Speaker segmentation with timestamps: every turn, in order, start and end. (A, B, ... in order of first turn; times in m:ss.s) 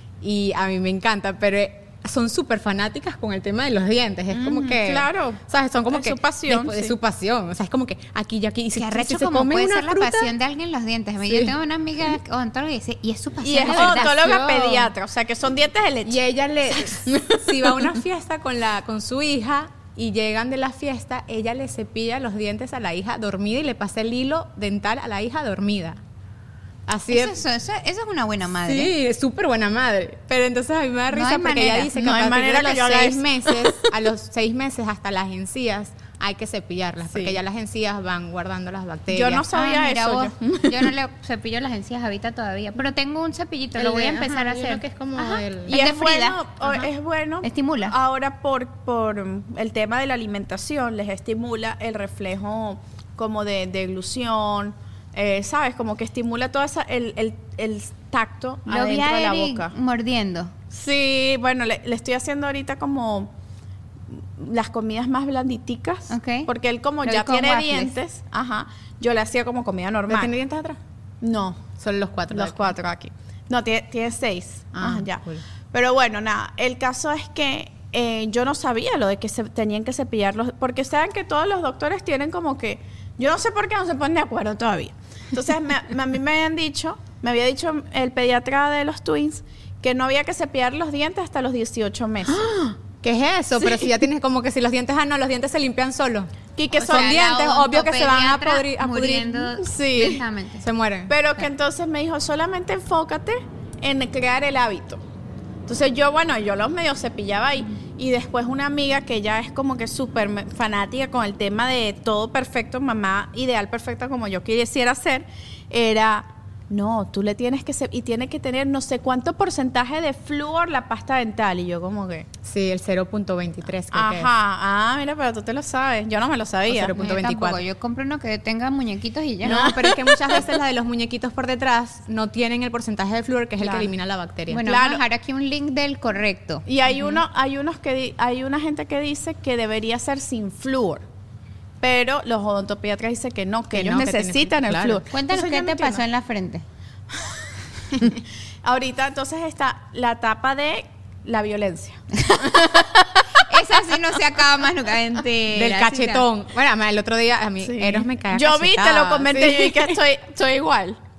0:00.2-0:10.3 A
0:04.3-0:06.9 B
0:08.7-0:14.4 C
0:11.2-0:11.5 A
0:13.4-0:17.9 B
0:13.6-0:14.9 A
0:16.0-0:26.0 A
0:26.9-0:27.4 A
0:27.1-0:28.9 C
0:28.6-0:39.4 A
0:31.1-0:31.9 C
0:31.9-0:33.7 B
0:37.1-0:37.4 B
0:39.1-0:40.9 B
0:39.5-0:46.4 C
0:43.8-0:45.7 A
0:45.6-0:59.7 B
0:47.4-0:47.9 C
0:58.7-1:00.5 C
1:00.7-1:03.3 B
1:04.1-1:10.3 B
1:06.1-1:06.5 C
1:07.0-1:07.9 C
1:10.1-1:10.8 A
1:11.2-1:11.7 B
1:11.8-1:12.7 A
1:12.3-1:32.7 B
1:14.7-1:15.4 A
1:33.0-1:36.3 A
1:33.6-1:33.9 B
1:36.5-1:37.3 B
1:36.8-1:40.6 C
1:36.8-1:39.6 A
1:39.6-1:40.2 B
1:40.6-1:41.1 A
1:41.1-1:45.0 B
1:45.6-2:02.3 B
2:02.4-2:04.3 A
2:03.9-2:07.0 B
2:06.7-2:07.6 A
2:07.0-2:09.8 C
2:09.4-2:14.6 A
2:09.5-2:10.4 B
2:13.6-2:13.9 B
2:14.5-2:16.6 C
2:14.6-2:15.0 B
2:16.6-2:21.0 B
2:21.8-2:25.0 B
2:23.7-2:26.0 A
2:25.1-2:26.6 C
2:28.6-2:33.5 B
2:32.2-2:32.6 C
2:33.3-2:36.2 C
2:35.5-2:40.0 A
2:37.6-2:41.0 B